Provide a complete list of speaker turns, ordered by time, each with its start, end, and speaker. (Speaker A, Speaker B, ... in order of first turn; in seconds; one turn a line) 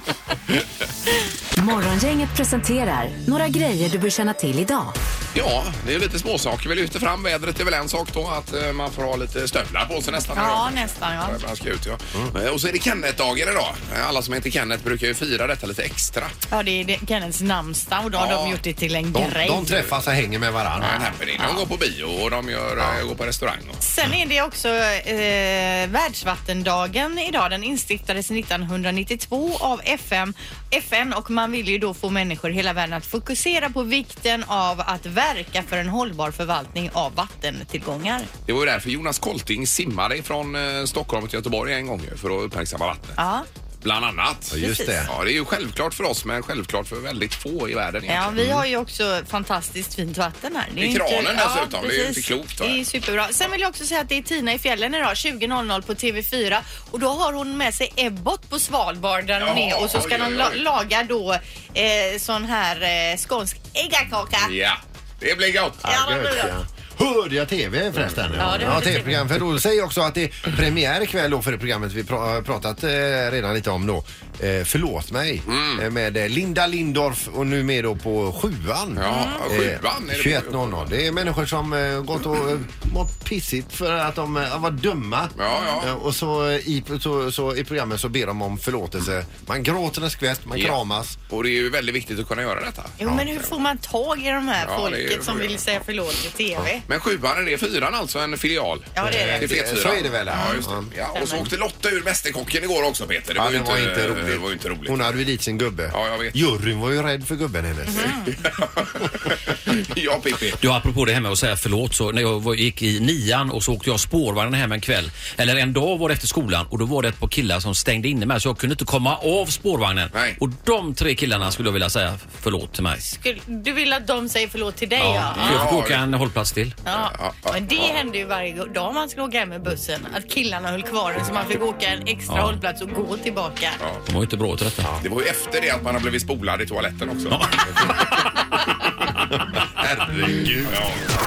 Speaker A: 1.5-4.9
Speaker B: 5.3-16.3
Speaker C: 10.3-11.4
Speaker C: 16.5-19.8
Speaker B: 18.1-18.6
Speaker D: 19.1-21.1
Speaker B: 20.8-23.8
Speaker C: 21.4-21.6
Speaker C: 23.8-38.3
Speaker B: 38.5-43.2
Speaker C: 43.2-43.5
Speaker B: 43.8-48.4
Speaker D: 44.5-45.1
Speaker C: 44.6-45.1
Speaker C: 48.1-64.5
Speaker D: 48.4-48.6
Speaker B: 50.8-52.8
Speaker B: 59.4-60.6
Speaker B: 64.4-65.8
Speaker D: 65.8-91.2
Speaker C: 65.8-66.5
Speaker B: 68.0-68.8
Speaker C: 68.4-69.2
Speaker B: 75.5-75.8
Speaker B: 79.0-81.0
Speaker C: 79.0-79.5
Speaker B: 85.4-85.9
Speaker C: 85.5-85.8
Speaker B: 90.5-90.8
Speaker B: 91.3-93.0
Speaker C: 93.0-96.8
Speaker B: 94.6-95.6
Speaker B: 96.9-105.2
Speaker C: 98.9-99.5
Speaker D: 99.0-100.9
Speaker C: 100.3-101.5
Speaker D: 103.4-108.3
Speaker B: 105.9-106.3
Speaker C: 107.9-108.3
Speaker B: 108.3-110.6
Speaker E: 110.6-123.0
Speaker B: 120.1-120.4
Speaker C: 123.0-125.7
Speaker E: 125.0-126.8
Speaker B: 125.3-126.0
Speaker C: 126.8-133.8
Speaker B: 126.9-127.9
Speaker E: 132.3-132.6
Speaker E: 134.1-134.9
Speaker B: 135.0-137.4
Speaker E: 137.3-137.6
Speaker D: 139.8-140.8
Speaker B: 140.7-140.9